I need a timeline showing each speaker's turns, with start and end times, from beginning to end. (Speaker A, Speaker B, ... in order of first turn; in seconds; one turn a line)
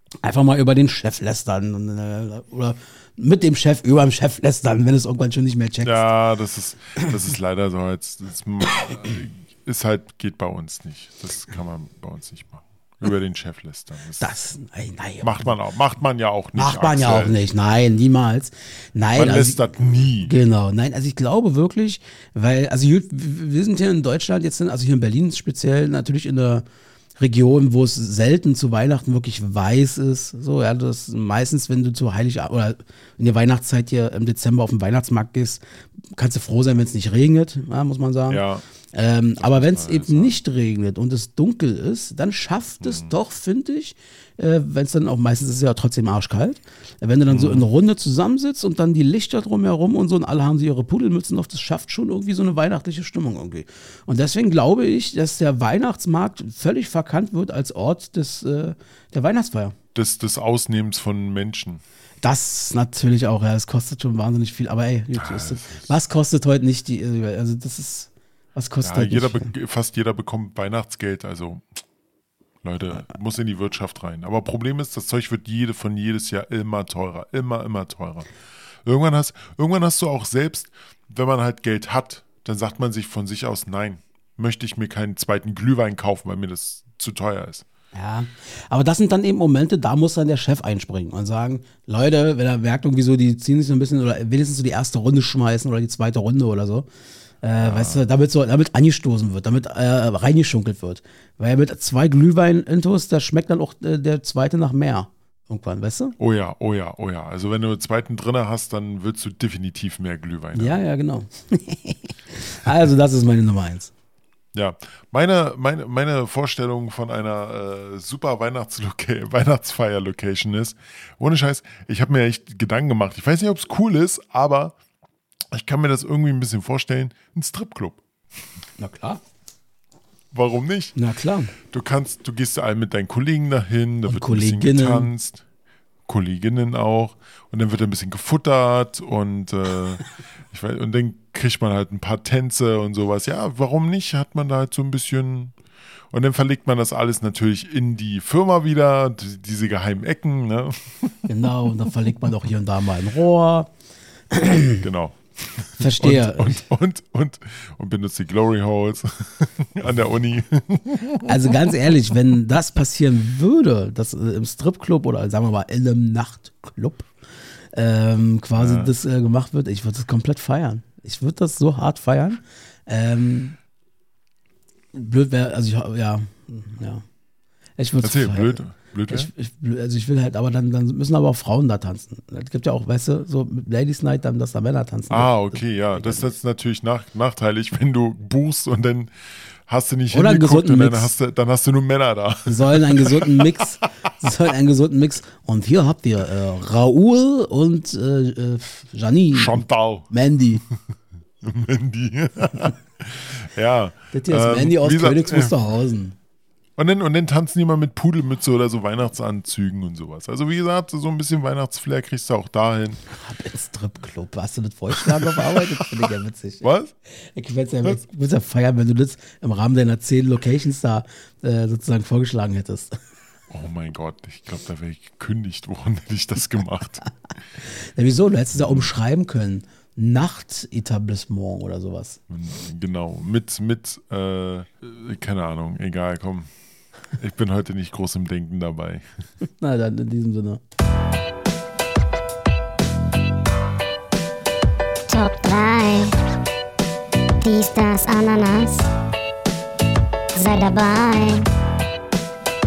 Speaker A: 0.2-6.0
Speaker B: 5.8-14.3
Speaker A: 14.2-15.6
Speaker B: 15.2-17.3
Speaker A: 16.6-19.6
Speaker B: 19.1-20.3
Speaker A: 20.2-26.6
Speaker A: 27.2-35.6
Speaker A: 36.1-59.7
Speaker B: 38.3-38.6
Speaker B: 39.4-40.4
Speaker B: 42.8-43.1
Speaker B: 47.3-47.7
Speaker B: 60.0-61.8
Speaker A: 62.2-69.5
Speaker B: 65.1-66.0
Speaker B: 68.8-71.8
Speaker B: 72.6-78.3
Speaker B: 78.8-87.6
Speaker A: 87.9-96.9
Speaker A: 97.4-106.1
Speaker B: 97.6-98.0
Speaker B: 106.2-110.8
Speaker A: 110.5-113.9
Speaker B: 114.5-124.8
Speaker B: 125.5-128.0
Speaker A: 128.8-129.2
Speaker B: 130.3-130.9
Speaker A: 130.9-131.6
Speaker B: 131.6-135.4
Speaker A: 134.1-135.1
Speaker B: 136.1-145.6
Speaker B: 146.1-151.3
Speaker A: 151.3-153.7
Speaker A: 154.3-154.8
Speaker B: 154.8-161.5
Speaker A: 155.8-156.6
Speaker A: 161.2-167.1
Speaker A: 167.7-173.6
Speaker B: 168.6-168.9
Speaker A: 174.9-177.0
Speaker A: 177.8-186.3
Speaker B: 178.0-179.3
Speaker B: 185.1-194.3
Speaker A: 190.1-191.1
Speaker A: 192.4-200.6
Speaker B: 199.3-200.1
Speaker B: 201.4-205.6
Speaker A: 204.1-206.1
Speaker B: 206.8-213.0
Speaker A: 213.1-222.9
Speaker B: 214.9-216.1
Speaker B: 216.6-216.9
Speaker B: 223.5-227.0
Speaker A: 227.7-232.2
Speaker B: 228.6-228.9
Speaker B: 232.3-236.5
Speaker B: 237.1-239.1
Speaker A: 239.6-240.6
Speaker C: 245.1-246.1
Speaker C: 247.4-248.9
Speaker C: 250.3-251.5